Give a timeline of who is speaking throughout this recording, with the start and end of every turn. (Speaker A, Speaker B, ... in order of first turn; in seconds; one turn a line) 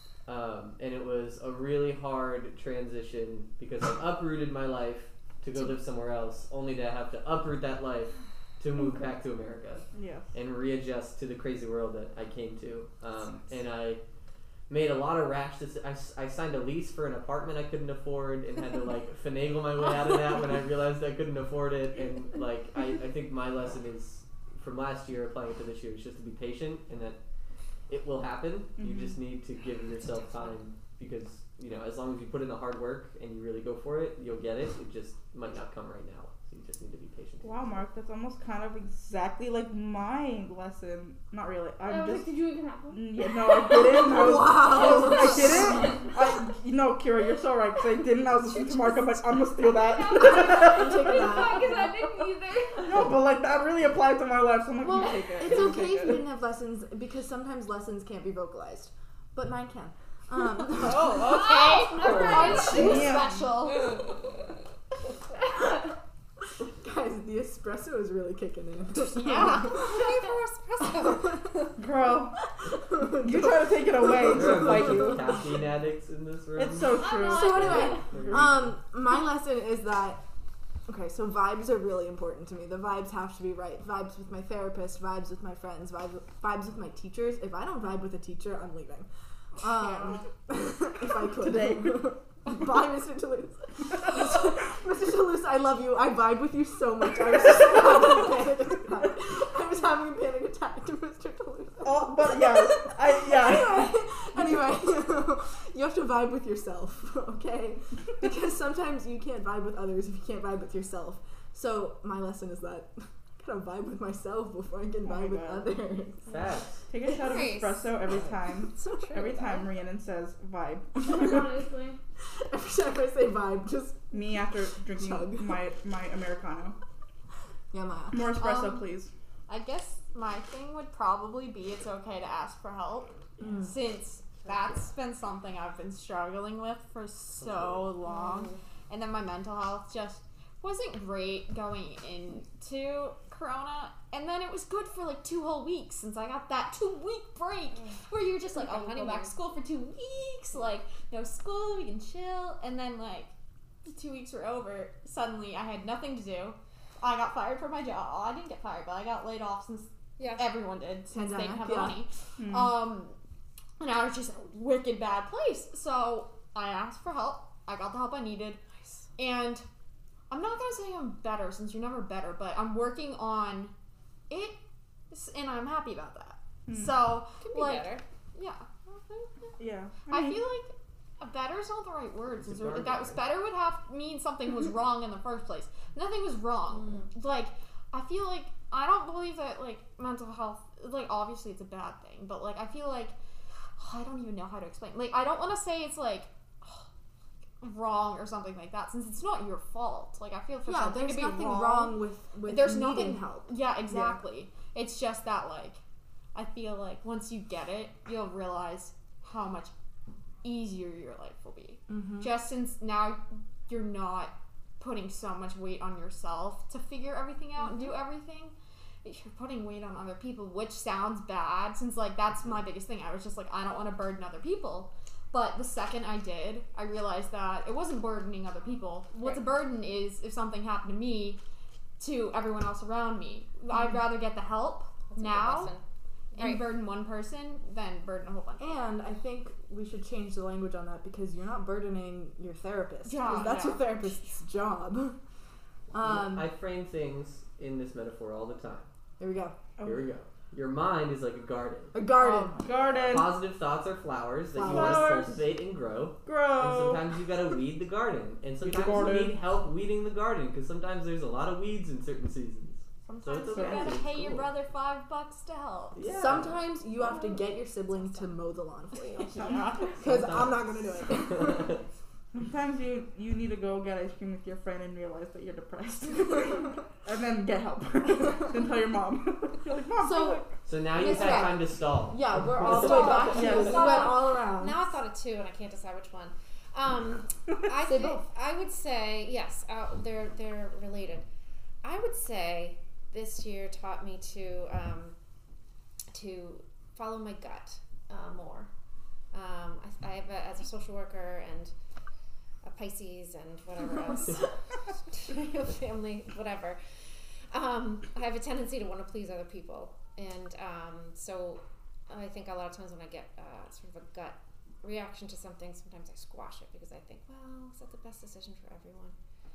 Speaker A: 0.2-14.0
Speaker B: 9.9-10.3
Speaker A: 14.7-27.2
Speaker A: 27.9-37.8
Speaker B: 28.8-29.2
Speaker C: 30.0-30.6
Speaker B: 37.4-51.6
Speaker D: 41.8-44.0
Speaker E: 43.7-46.1
Speaker D: 49.7-53.0
Speaker E: 50.1-51.9
Speaker B: 52.8-56.2
Speaker D: 54.9-55.7
Speaker E: 55.2-61.4
Speaker F: 60.8-64.0
Speaker D: 61.1-63.3
Speaker E: 62.1-63.2
Speaker C: 62.2-62.5
Speaker B: 62.3-63.5
Speaker E: 66.8-70.0
Speaker C: 69.2-71.5
Speaker F: 69.2-69.8
Speaker E: 71.3-71.6
Speaker B: 71.8-72.4
Speaker E: 72.5-75.4
Speaker B: 73.1-75.6
Speaker A: 74.2-78.7
Speaker B: 76.5-78.6
Speaker D: 76.9-78.0
Speaker E: 77.3-80.2
Speaker E: 80.8-116.3
Speaker F: 89.8-90.3
Speaker B: 91.2-92.2
Speaker B: 101.8-103.9
Speaker B: 115.0-115.7
Speaker A: 116.3-116.8
Speaker B: 116.9-121.5
Speaker C: 117.1-117.9
Speaker E: 118.0-119.6
Speaker C: 118.7-119.6
Speaker D: 121.0-122.0
Speaker E: 122.3-125.6
Speaker B: 124.1-126.8
Speaker E: 127.7-128.3
Speaker B: 128.1-129.1
Speaker F: 128.4-128.9
Speaker F: 129.5-153.3
Speaker E: 133.4-133.7
Speaker A: 137.4-137.9
Speaker C: 138.1-138.6
Speaker C: 148.5-149.3
Speaker F: 153.8-163.1
Speaker C: 160.2-160.4
Speaker E: 161.1-162.0
Speaker B: 162.4-162.8
Speaker F: 163.8-168.6
Speaker C: 168.7-169.1
Speaker F: 169.2-169.7
Speaker F: 170.3-173.7
Speaker F: 174.3-174.6
Speaker F: 175.1-193.1
Speaker B: 176.7-176.9
Speaker C: 177.4-178.0
Speaker B: 179.6-180.4
Speaker A: 182.4-183.2
Speaker C: 186.7-187.1
Speaker F: 193.8-196.9
Speaker F: 197.6-205.8
Speaker E: 200.7-204.2
Speaker F: 206.3-209.7
Speaker F: 210.4-231.4
Speaker E: 211.9-212.3
Speaker C: 217.6-217.9
Speaker C: 229.2-229.4
Speaker F: 232.0-235.7
Speaker C: 235.1-235.8
Speaker F: 236.3-238.7
Speaker C: 236.3-236.6
Speaker E: 238.6-245.2
Speaker F: 243.0-244.3
Speaker E: 245.9-246.5
Speaker A: 245.9-248.9
Speaker E: 249.2-249.6
Speaker B: 249.8-250.1
Speaker A: 249.8-252.0
Speaker E: 251.9-252.7
Speaker B: 252.2-253.5
Speaker A: 252.9-264.5
Speaker E: 254.5-255.3
Speaker B: 254.6-255.5
Speaker B: 256.2-257.4
Speaker B: 258.6-259.4
Speaker F: 263.1-266.1
Speaker B: 263.5-264.0
Speaker A: 265.9-266.6
Speaker E: 266.1-269.3
Speaker C: 267.1-268.3
Speaker F: 269.2-270.0
Speaker B: 269.3-270.0
Speaker E: 270.0-271.8
Speaker A: 270.0-270.6
Speaker A: 271.4-271.8
Speaker B: 272.3-280.6
Speaker E: 280.0-284.9
Speaker A: 280.6-283.4
Speaker C: 282.7-291.2
Speaker B: 283.1-284.1
Speaker E: 287.8-288.2
Speaker C: 291.8-295.1
Speaker C: 296.1-298.7
Speaker C: 299.3-301.7
Speaker C: 302.6-319.2